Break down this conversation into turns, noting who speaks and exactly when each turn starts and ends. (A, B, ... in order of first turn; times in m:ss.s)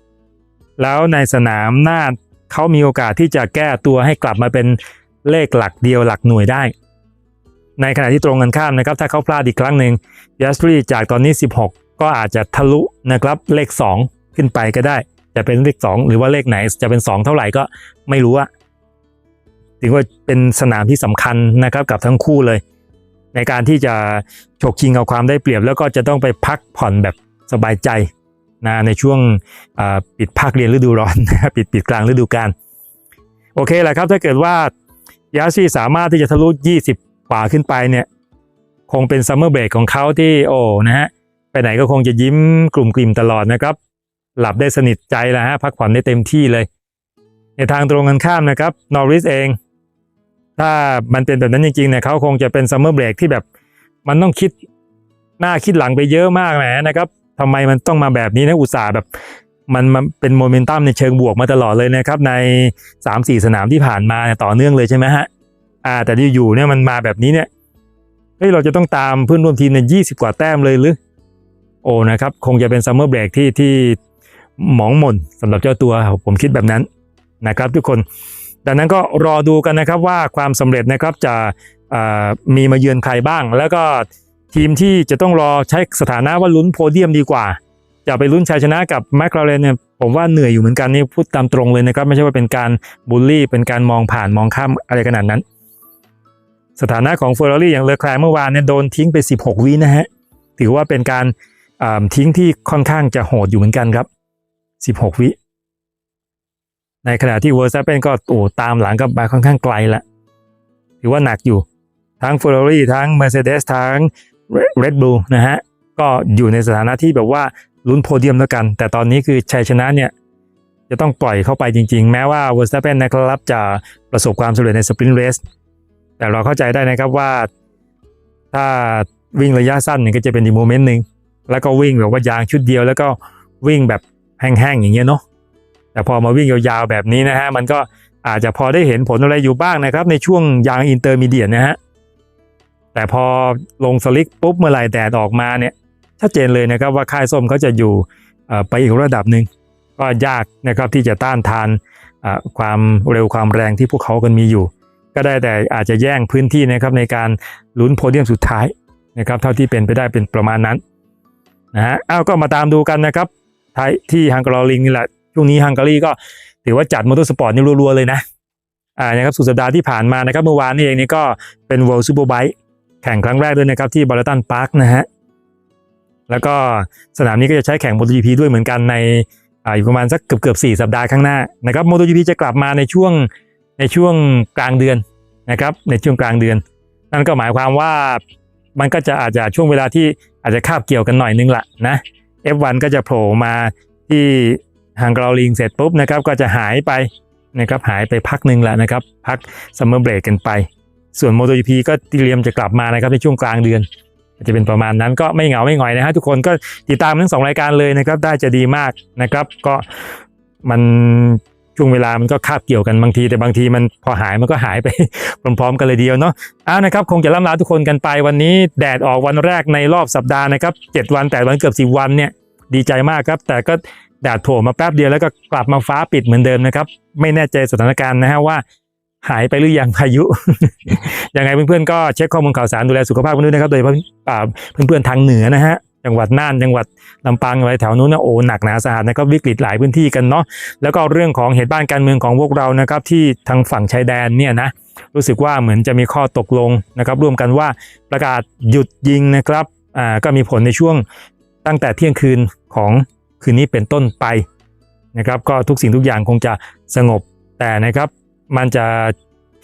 0:00.8-0:06.7 A
0:07.8-0:18.5 A
0:19.8-0:22.6 A
0:23.3-0:28.1 A
0:28.6-0:32.5 A
0:33.6-0:34.7 A
0:35.3-0:38.1 A
0:38.9-0:43.8 A
0:44.4-0:46.7 A
0:47.6-0:49.6 A
0:50.6-0:53.4 A
0:54.0-0:54.5 A
0:55.4-0:59.1 A
0:59.7-1:05.3 A
1:05.8-1:07.5 A
1:08.4-1:11.0 A
1:11.8-1:14.0 A
1:14.6-1:16.9 A
1:17.4-1:18.0 A
1:18.6-1:35.4 A
1:36.8-1:40.1 A
1:40.6-1:44.1 A
1:44.8-1:45.4 A
1:47.0-1:50.0 A
1:51.0-1:51.6 A
1:52.2-2:00.1 A
2:00.9-2:05.4 A
2:06.2-2:07.5 A
2:08.5-2:15.2 A
2:16.0-2:21.8 A
2:22.9-2:40.8 A
2:41.7-2:48.2 A
2:49.0-2:55.1 A
2:56.3-3:08.2 A
3:08.8-3:23.9 A
3:24.4-3:29.8 A
3:30.6-3:48.6 A
3:49.2-4:11.0 A
4:11.6-4:14.4 A
4:15.2-4:19.1 A